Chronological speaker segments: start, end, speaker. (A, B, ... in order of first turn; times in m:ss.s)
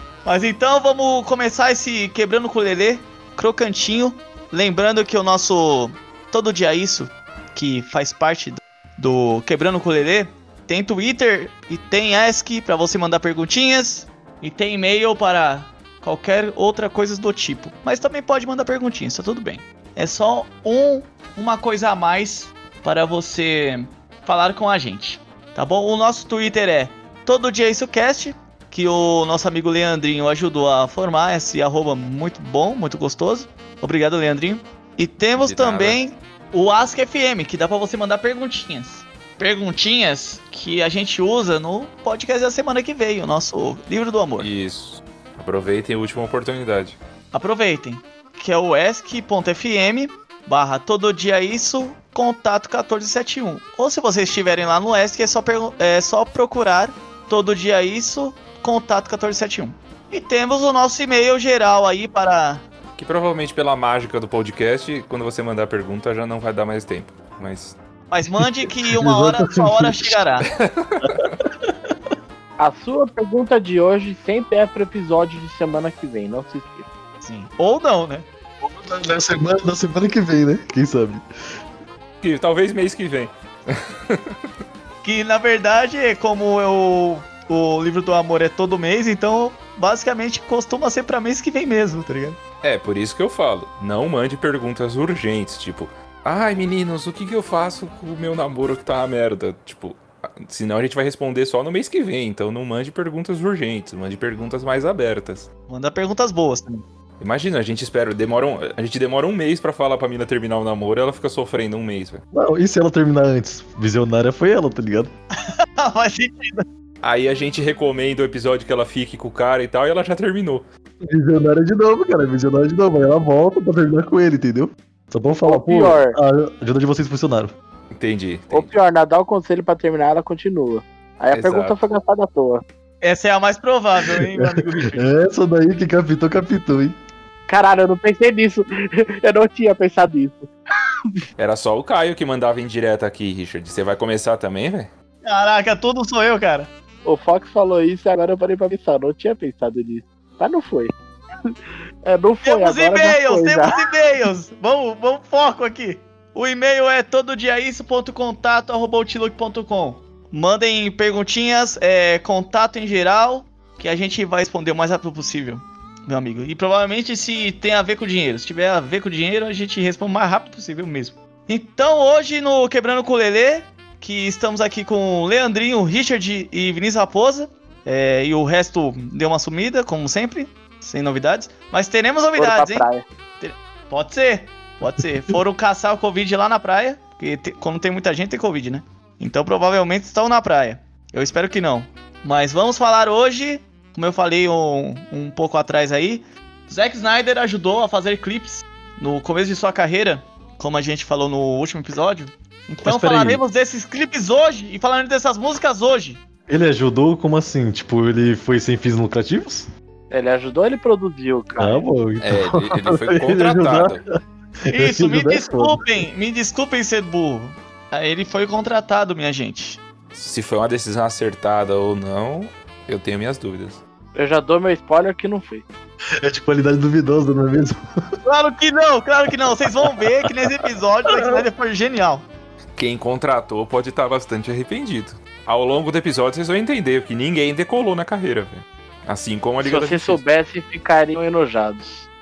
0:00.2-0:44.5 A
0:35.4-0:36.0 B
0:44.4-0:47.0 B
0:47.3-1:02.6 A
1:03.0-1:07.8 B
1:08.1-1:10.5 A
1:08.4-1:10.2 C
1:10.5-1:11.4 B
1:11.0-1:11.9 C
1:12.6-1:16.9 D
1:17.2-1:18.2 A
1:18.6-1:21.2 C
1:22.2-1:24.3 B
1:25.0-1:32.4 A
1:32.6-1:45.5 B
1:45.7-1:46.8 A
1:47.2-1:52.2 B
1:52.3-1:55.1 C
1:55.5-1:56.7 A
1:57.0-2:00.6 B
2:01.0-2:07.5 C
2:05.4-2:06.2 D
2:07.9-2:08.7 B
2:08.5-2:12.6 D
2:11.3-2:11.8 B
2:13.0-2:15.1 A
2:14.0-2:17.0 C
2:17.5-2:20.5 D
2:21.4-2:24.9 B
2:25.2-2:26.7 A
2:27.0-2:30.9 D
2:31.5-2:33.8 D
2:32.4-3:02.8 A
3:02.4-3:03.0 D
3:03.4-3:26.2 A
3:22.8-3:23.4 C
3:26.5-3:29.7 C
3:30.1-3:31.8 D
3:31.6-3:34.0 C
3:32.2-3:34.0 B
3:34.6-3:35.8 C
3:34.7-3:39.8 A
3:40.1-3:43.8 B
3:44.2-3:45.7 D
3:46.2-3:47.8 C
3:48.2-3:52.2 A
3:49.8-3:50.1 C
3:51.1-3:51.4 C
3:52.8-4:00.2 B
3:59.6-4:02.1 D